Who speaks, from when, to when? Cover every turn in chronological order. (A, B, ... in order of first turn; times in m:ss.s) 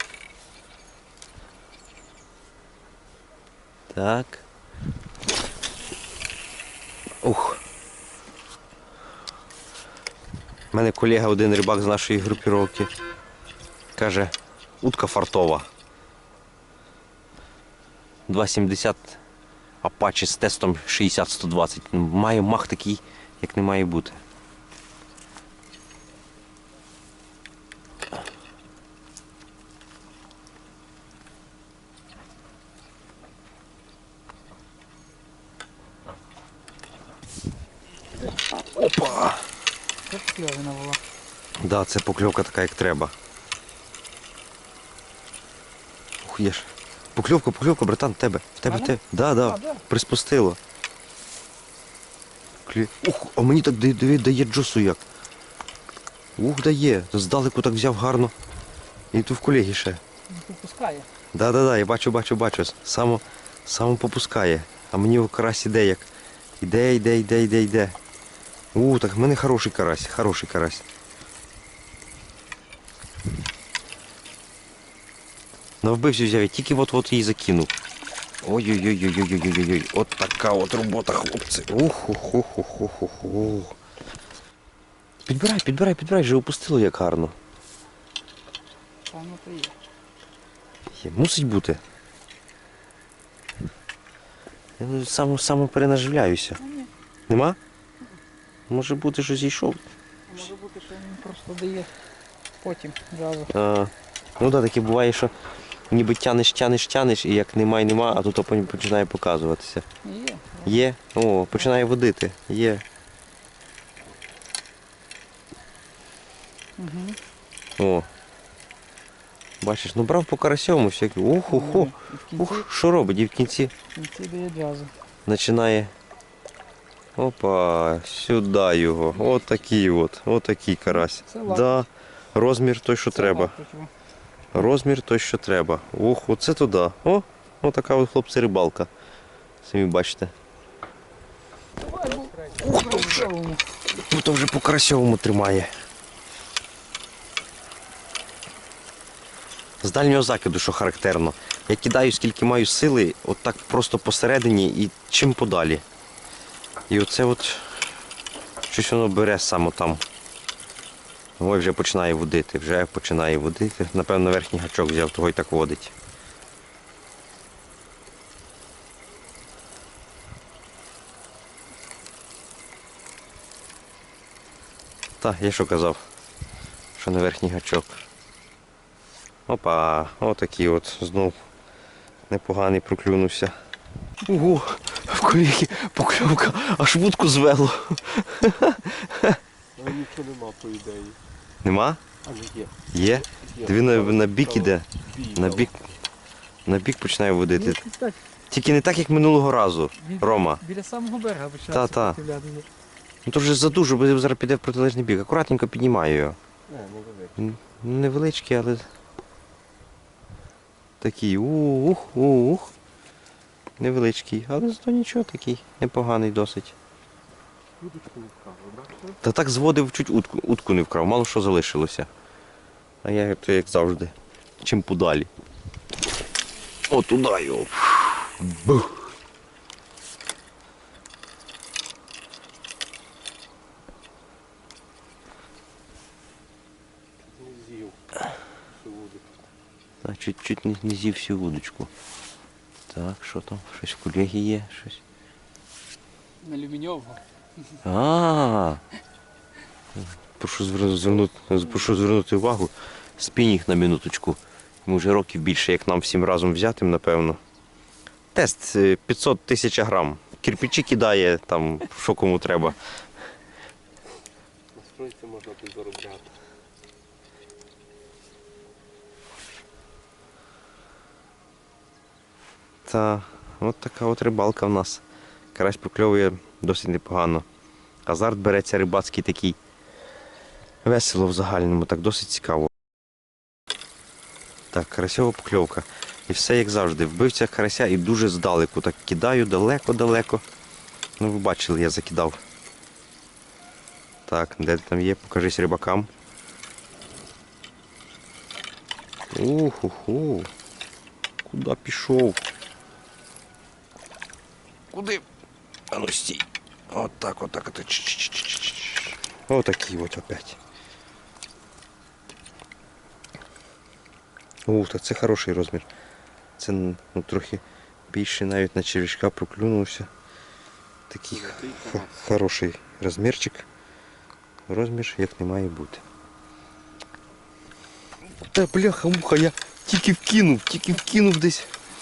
0:03.9-0:04.4 A
0:07.2-0:07.6 A
0:10.7-0:12.9 A
0:14.0-0:15.7 A
0:18.3-0:19.2 A
0:19.8-0:24.2 A
0:38.7-0:39.4 A
0:40.0-0:41.0 B
0:41.6-0:43.1 A
0:46.2-0:50.6 A
0:48.6-0:49.8 B
0:52.6-0:55.0 A
0:56.4-0:58.3 A
0:59.1-1:00.0 A
1:00.3-1:01.1 B
1:01.3-1:06.1 A
1:06.6-1:08.0 A
1:08.7-1:10.8 A
1:15.8-1:17.7 A
1:18.4-1:23.8 A
1:25.3-1:27.3 A
1:29.1-1:29.8 B
1:30.9-1:31.8 A
1:34.8-1:36.6 A
1:36.6-1:36.9 B
1:37.3-1:37.6 A
1:38.7-1:39.8 A
1:40.3-1:41.9 B
1:42.6-1:43.5 B
1:43.5-1:45.3 A
1:45.9-1:49.8 A
1:50.0-1:50.8 B
1:50.6-1:52.8 A
1:56.8-1:57.2 B
1:57.8-1:58.1 A
1:59.6-2:03.7 A
2:01.5-2:02.6 B
2:03.9-2:04.9 B
2:05.2-2:05.9 A
2:07.2-2:13.6 A
2:10.9-2:11.8 B
2:13.1-2:13.9 B
2:14.5-2:18.9 A
2:19.6-2:20.3 A
2:21.8-2:23.6 B
2:22.6-2:23.3 A
2:24.0-2:25.7 A
2:29.8-2:35.8 A
2:36.9-2:37.7 A
2:38.7-2:40.0 A
2:41.4-2:45.9 A
2:55.2-2:56.1 A
2:57.0-2:58.0 A
2:59.5-3:01.4 A
3:02.3-3:03.6 A
3:04.2-3:09.4 A
3:09.8-3:11.2 C
3:11.6-3:12.0 A
3:12.2-3:15.8 C
3:12.9-3:15.8 A
3:16.6-3:17.8 A
3:17.5-3:18.2 B
3:18.5-3:20.6 A
3:20.0-3:22.7 B
3:21.7-3:22.2 A
3:23.2-3:26.4 A
3:26.7-3:27.4 C
3:27.4-3:28.9 A
3:31.0-3:32.7 A
3:33.8-3:36.7 A
3:37.8-3:39.2 C
3:39.2-3:42.1 A
3:43.0-3:45.3 A
3:46.9-3:49.1 A
3:57.2-3:59.3 C
4:00.0-4:01.9 A
4:02.9-4:05.0 A
4:06.4-4:07.2 B
4:07.8-4:08.8 A
4:10.4-4:17.4 A
4:18.3-4:22.8 A
4:24.7-4:26.3 C
4:32.8-4:35.0 A
4:35.5-4:37.4 A
4:38.0-4:39.6 A
4:40.8-4:42.7 A
4:44.7-4:50.4 A
4:51.2-4:52.4 A
4:54.3-4:56.1 A
4:59.3-5:00.5 A
5:01.4-5:02.4 A
5:04.9-5:05.2 A
5:05.9-5:10.6 A
5:14.6-5:15.8 A
5:16.6-5:20.1 A
5:21.1-5:23.6 A
5:21.3-5:22.3 C
5:24.7-5:26.0 A
5:28.4-5:31.7 A